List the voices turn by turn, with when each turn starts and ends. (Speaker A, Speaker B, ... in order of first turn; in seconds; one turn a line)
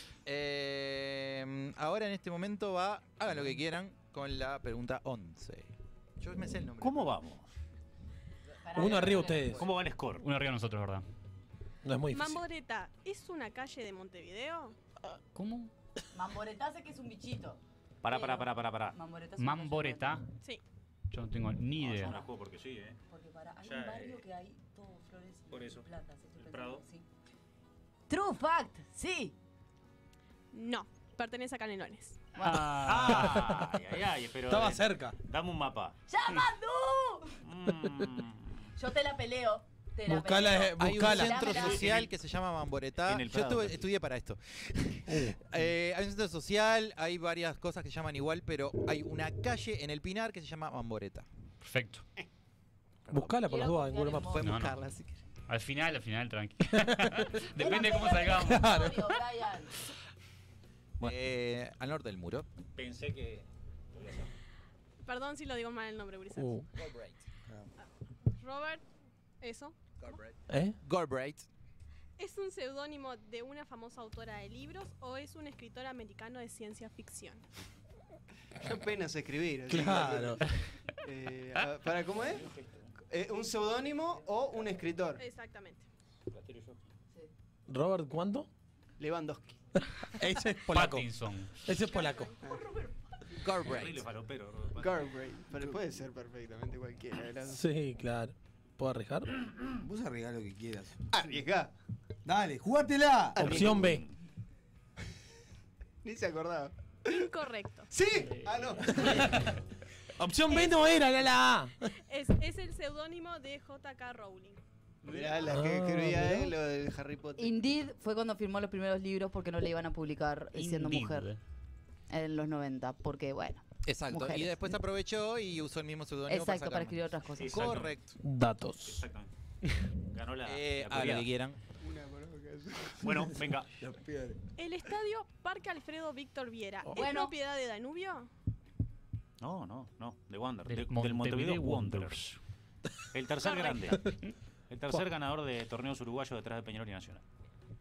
Speaker A: 0.2-7.2
Speaker B: 6.8-7.5
Speaker C: 8.6-9.7
Speaker D: 8.7-9.6
Speaker A: 8.8-9.7
Speaker B: 9.1-10.2
Speaker E: 10.2-11.0
Speaker D: 11.8-12.4
Speaker F: 12.1-14.7
Speaker E: 15.3-15.7
Speaker C: 16.1-20.2
Speaker B: 18.0-19.0
Speaker E: 19.4-20.2
Speaker E: 21.1-22.2
Speaker B: 21.8-23.0
Speaker C: 21.9-22.3
Speaker C: 23.1-27.0
Speaker B: 23.6-24.2
Speaker B: 25.5-26.8
Speaker C: 28.1-29.3
Speaker F: 30.5-32.2
Speaker E: 32.4-33.5
Speaker D: 32.4-33.7
Speaker B: 32.8-36.0
Speaker D: 34.5-35.2
Speaker C: 36.1-37.4
Speaker B: 37.4-38.6
Speaker C: 38.8-42.0
Speaker D: 40.0-41.4
Speaker A: 40.8-51.3
Speaker B: 41.2-42.1
Speaker B: 43.0-43.9
Speaker D: 45.1-45.4
Speaker E: 51.6-52.0
Speaker D: 53.1-54.4
Speaker C: 53.4-54.7
Speaker A: 54.2-55.2
Speaker E: 54.4-54.8
Speaker E: 55.5-59.2
Speaker D: 56.8-57.4
Speaker C: 57.5-59.7
Speaker D: 58.3-59.0
Speaker A: 61.0-62.5
Speaker B: 62.8-64.3
Speaker F: 65.0-66.5
Speaker D: 66.3-66.7
Speaker A: 66.7-67.2
Speaker F: 68.4-68.8
Speaker F: 69.4-70.2
Speaker A: 70.0-71.5
Speaker D: 70.5-70.8
Speaker F: 72.2-77.4
Speaker G: 78.5-80.5
Speaker D: 79.7-80.4
Speaker G: 81.0-82.5
Speaker G: 83.1-85.2
Speaker F: 85.2-85.8
Speaker B: 86.3-86.8
Speaker D: 87.7-88.5
Speaker G: 89.0-89.5
Speaker D: 90.2-91.1
Speaker E: 90.7-91.6
Speaker D: 91.6-92.3
Speaker F: 91.7-92.6
Speaker A: 93.4-94.0
Speaker B: 93.6-95.2
Speaker G: 94.8-97.6
Speaker D: 97.5-99.3
Speaker H: 99.8-100.9
Speaker G: 101.1-101.7
Speaker H: 102.2-103.4
Speaker G: 103.3-103.8
Speaker D: 103.4-104.0
Speaker B: 103.4-104.0
Speaker G: 106.0-107.2
Speaker F: 107.1-107.9
Speaker G: 107.9-109.4
Speaker E: 108.2-109.5
Speaker D: 109.0-109.5
Speaker D: 110.2-111.8
Speaker F: 112.1-114.6
Speaker E: 115.0-115.4
Speaker G: 115.0-117.6
Speaker D: 115.4-116.5
Speaker C: 117.3-121.3
Speaker E: 120.5-121.4
Speaker C: 122.1-124.7
Speaker A: 123.8-128.1
Speaker C: 126.3-127.8
Speaker B: 127.3-128.1
Speaker D: 128.2-129.1
Speaker B: 128.7-129.3
Speaker B: 130.1-131.3
Speaker A: 130.4-131.6
Speaker G: 131.8-133.1
Speaker B: 133.0-133.8
Speaker H: 133.8-134.4
Speaker F: 134.6-138.3
Speaker C: 136.9-137.3
Speaker B: 139.4-142.2
Speaker E: 140.7-142.4
Speaker B: 143.1-144.0
Speaker F: 143.4-144.0
Speaker B: 144.7-147.2